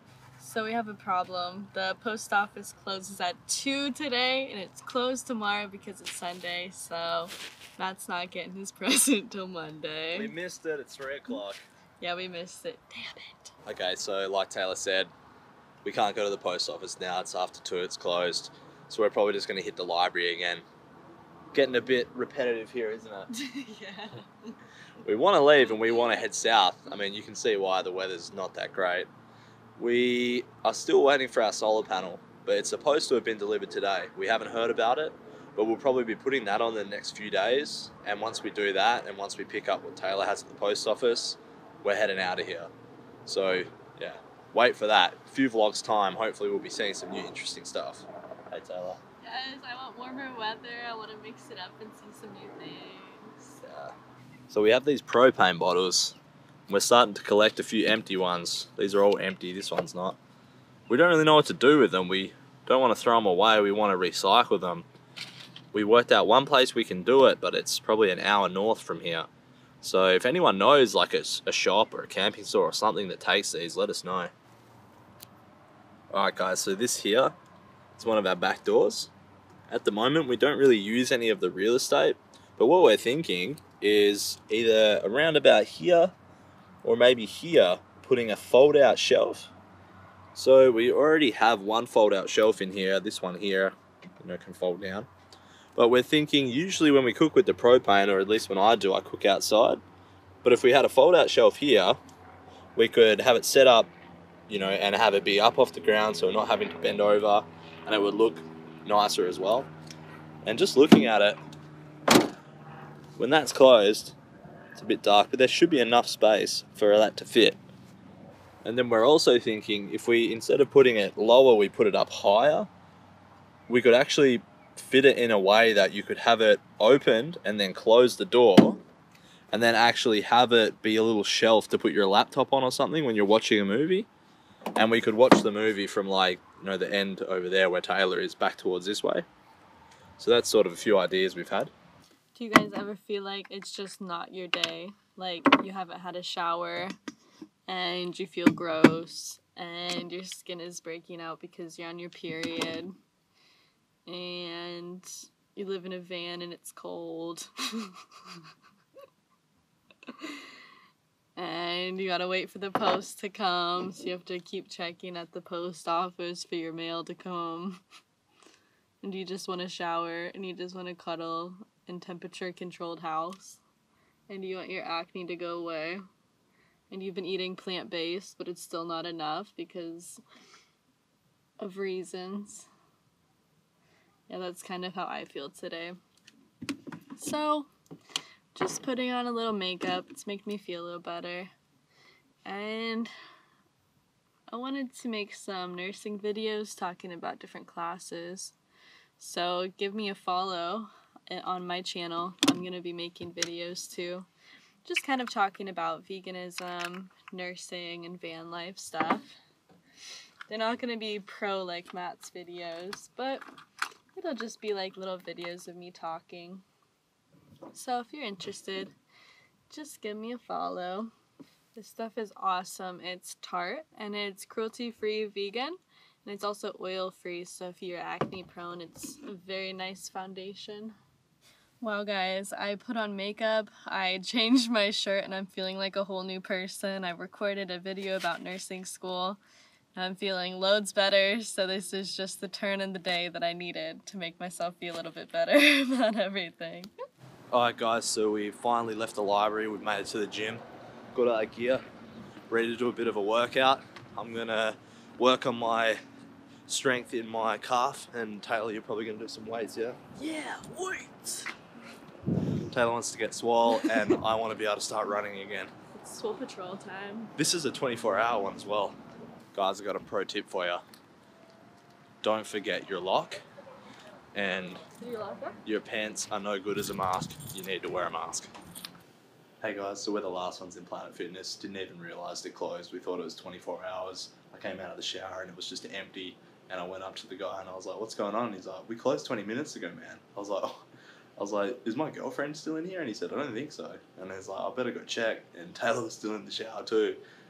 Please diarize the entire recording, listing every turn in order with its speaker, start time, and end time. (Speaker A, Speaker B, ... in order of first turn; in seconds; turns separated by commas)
Speaker A: 0.4-10.3, Speaker B: 10.1-11.6, Speaker A: 12.0-13.5, Speaker B: 13.7-15.1, Speaker B: 15.8-20.6, Speaker B: 21.5-23.3, Speaker A: 23.3-24.6, Speaker B: 25.0-29.1, Speaker A: 25.6-26.1, Speaker B: 29.8-42.7, Speaker B: 43.2-49.0, Speaker A: 49.2-53.6, Speaker B: 53.6-53.9, Speaker B: 54.5-56.1, Speaker B: 56.7-60.2, Speaker B: 60.9-64.9, Speaker B: 65.7-69.3, Speaker B: 69.8-74.3, Speaker B: 76.1-77.3, Speaker B: 77.9-79.1, Speaker B: 79.7-86.1, Speaker B: 86.8-89.5, Speaker B: 90.3-95.1, Speaker B: 95.8-99.8, Speaker B: 100.4-102.0, Speaker B: 102.8-103.9, Speaker B: 104.5-109.7, Speaker B: 110.4-111.4, Speaker B: 113.2-114.2, Speaker B: 114.7-117.6, Speaker B: 118.6-122.7, Speaker B: 123.7-128.8, Speaker B: 129.5-134.1, Speaker B: 134.8-139.2, Speaker B: 140.2-141.7, Speaker A: 142.3-146.9, Speaker A: 147.7-152.9, Speaker A: 154.1-158.4, Speaker A: 160.1-160.4, Speaker A: 161.3-167.8, Speaker A: 169.0-173.6, Speaker A: 174.3-176.0, Speaker A: 176.9-180.2, Speaker A: 181.6-182.7, Speaker A: 184.3-186.0, Speaker A: 187.2-187.7, Speaker A: 188.5-191.5, Speaker A: 192.4-193.1, Speaker A: 194.5-198.6, Speaker A: 199.2-204.3, Speaker A: 204.8-209.3, Speaker A: 210.5-213.4, Speaker A: 214.1-216.6, Speaker A: 217.7-218.9, Speaker A: 219.7-221.1, Speaker A: 221.7-230.9, Speaker A: 231.8-239.4, Speaker A: 239.9-246.9, Speaker B: 247.5-250.6, Speaker B: 251.1-251.8, Speaker B: 252.5-256.0, Speaker B: 256.7-260.0, Speaker A: 260.2-261.5, Speaker B: 262.7-265.7, Speaker A: 263.7-264.2, Speaker A: 265.9-267.3, Speaker B: 267.4-269.0, Speaker B: 269.5-270.8, Speaker B: 272.2-273.4, Speaker B: 274.3-274.8, Speaker A: 274.9-275.6, Speaker B: 275.6-278.5, Speaker B: 279.6-290.8, Speaker B: 291.4-297.2